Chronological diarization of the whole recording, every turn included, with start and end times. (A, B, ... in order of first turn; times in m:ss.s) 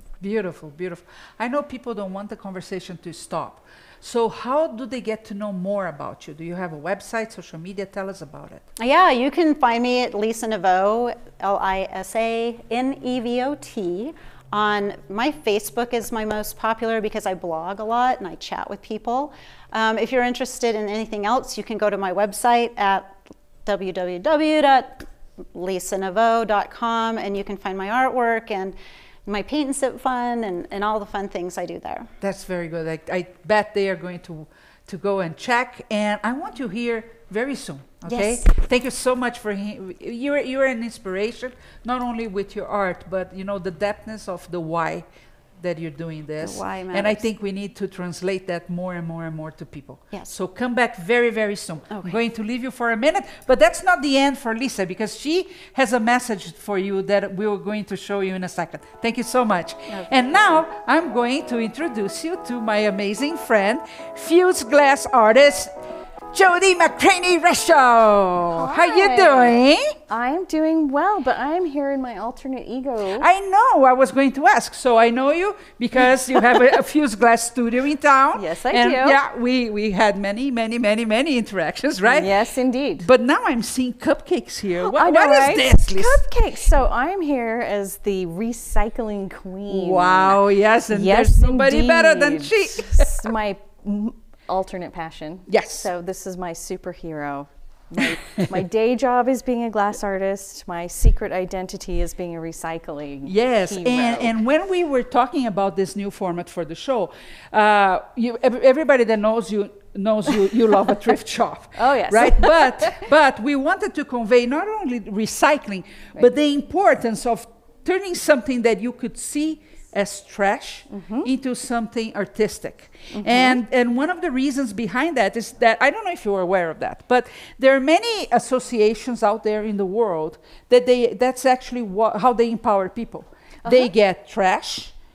0:00.2-0:08.6 A
0:08.8-0:32.1 B
0:32.2-0:45.1 A
0:38.1-0:38.5 B
0:45.6-1:05.7 A
0:46.4-0:47.2 B
0:59.9-1:00.4 B
1:06.3-1:10.0 A
1:08.5-1:13.3 C
1:13.1-1:22.4 A
1:18.3-1:19.2 C
1:22.1-1:23.1 C
1:23.0-1:26.2 A
1:24.8-1:44.3 C
1:29.7-1:33.3 A
1:35.5-1:35.9 A
1:43.2-2:14.9 A
1:51.7-1:53.1 C
2:00.9-2:01.3 C
2:03.1-2:03.6 C
2:13.6-2:13.9 C